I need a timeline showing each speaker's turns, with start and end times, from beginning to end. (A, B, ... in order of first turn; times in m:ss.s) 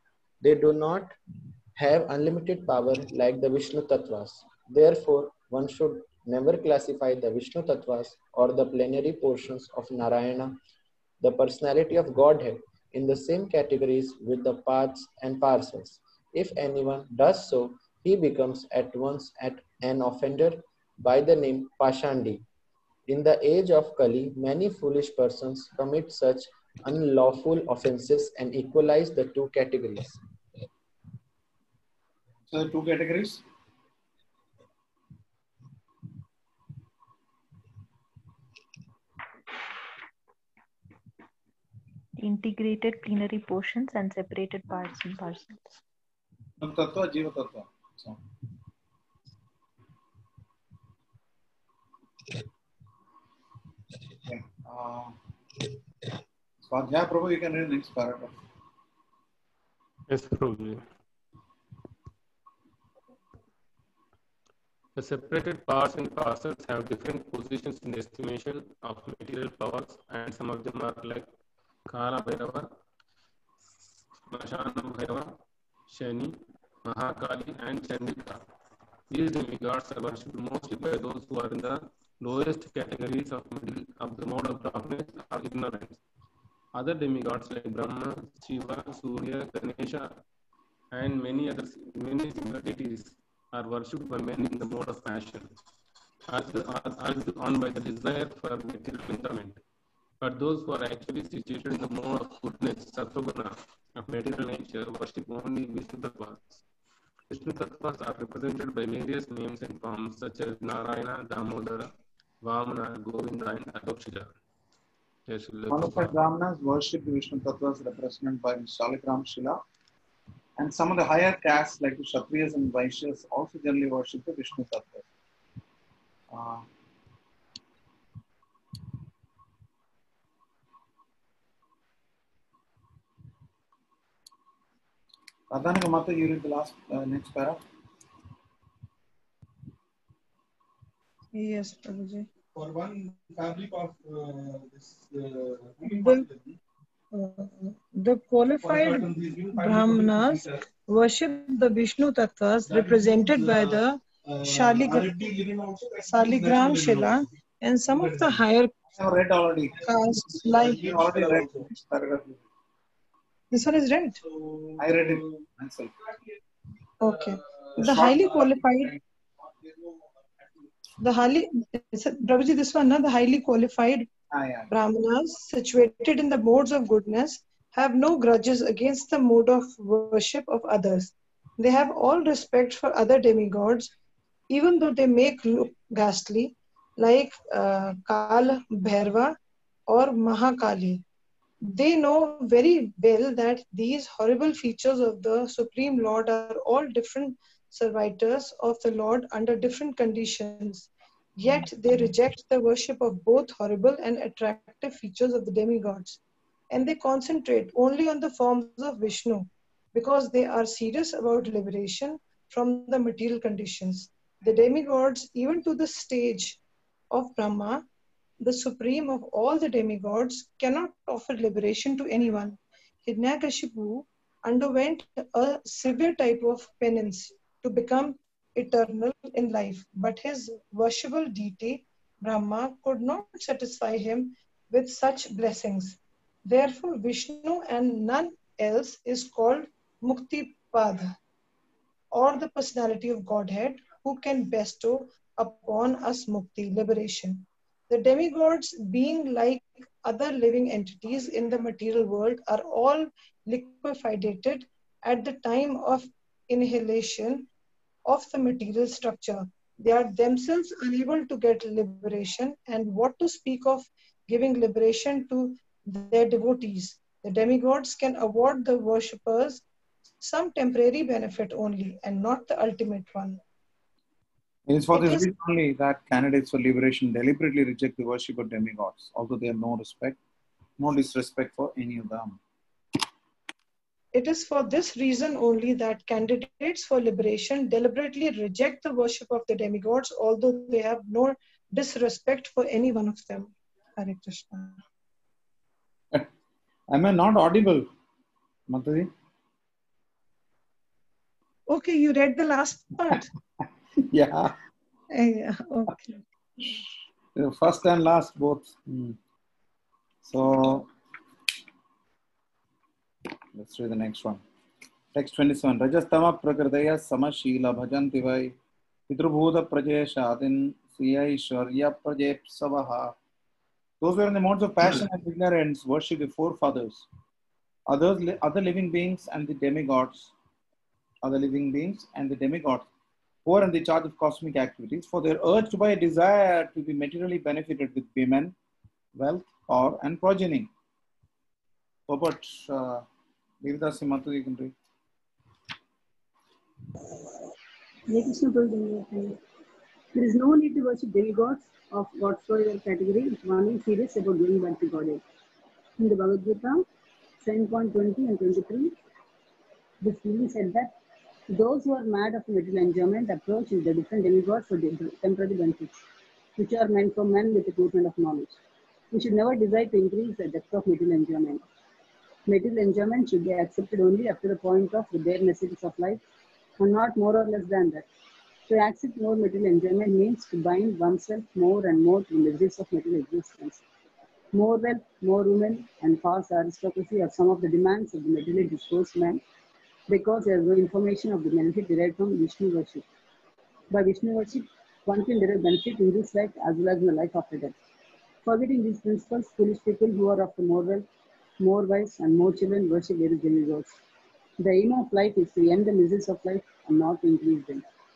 0:00.4-0:01.1 A
0:01.8-0:10.6 A
0:11.2-0:22.4 A
0:23.1-0:30.2 A
0:32.5-0:33.4 B
0:42.2-0:45.6 C
0:46.6-0:48.2 B
0:54.3-0:55.1 B
0:56.6-0:58.3 B
1:00.1-1:00.8 D
1:05.0-1:11.3 D
1:11.9-1:12.7 D
1:14.3-1:15.3 D
1:15.9-1:18.4 D
1:19.1-1:26.0 D
1:26.8-1:30.2 D
1:30.9-1:35.5 D
1:36.3-1:39.6 D
1:40.2-1:46.6 D
1:47.3-1:51.9 D
1:52.4-1:54.3 D
1:55.3-1:56.2 D
1:55.7-1:59.6 B
2:00.6-2:05.1 B
2:06.3-2:06.7 B
2:15.5-2:17.6 B
2:21.3-2:22.3 E
2:22.6-2:26.6 F
2:25.9-2:26.3 E
2:27.1-2:35.2 E
2:28.6-2:30.6 F
2:32.7-2:37.2 F
2:36.0-2:38.7 E
2:37.9-2:38.4 F
2:39.0-2:39.8 B
2:39.8-2:41.7 F
2:39.8-2:40.8 E
2:40.7-2:42.4 B
2:43.5-2:44.2 E
2:44.2-2:45.3 F
2:44.8-2:45.9 B
2:47.0-2:48.9 E
2:47.2-2:48.9 F
2:47.8-2:48.3 B
2:49.6-2:49.9 F
2:51.0-2:54.1 E
2:54.3-2:54.7 B
2:54.7-3:03.9 E
3:04.5-3:09.4 E
3:09.9-3:11.0 E
3:11.6-3:26.2 E
3:26.7-3:36.6 E
3:37.1-3:37.9 E
3:38.4-4:01.2 E
4:02.1-4:17.5 E
4:18.1-4:29.6 E
4:30.2-4:33.4 E
4:34.7-4:40.2 B
4:34.9-4:35.3 E
4:40.8-4:42.4 B
4:44.1-4:54.8 E
4:56.9-4:57.9 B
4:58.7-4:59.1 B
5:01.7-5:03.3 E
5:04.1-5:04.6 B
5:05.1-5:06.2 E
5:07.4-5:09.2 B
5:10.2-5:10.9 B
5:13.6-5:14.4 B
5:15.2-5:18.6 B
5:19.1-5:23.2 B
5:24.0-5:27.1 B
5:27.9-5:30.3 B
5:31.2-5:32.9 B
5:33.5-5:38.6 B
5:39.2-5:40.7 B
5:42.1-5:43.0 B
5:43.6-5:44.7 B
5:48.1-5:49.4 G
5:50.1-5:55.2 G
5:56.0-5:56.8 G
5:57.4-5:59.0 G
6:00.0-6:01.0 G
6:01.5-6:06.0 G
6:06.6-6:08.6 G
6:09.1-6:11.6 G
6:12.5-6:16.2 G
6:16.8-6:18.1 G
6:18.7-6:23.8 G
6:24.5-6:29.4 G
6:30.1-6:33.0 G
6:33.9-6:37.8 G
6:38.4-6:41.1 G
6:41.6-6:44.0 G
6:44.6-6:47.8 G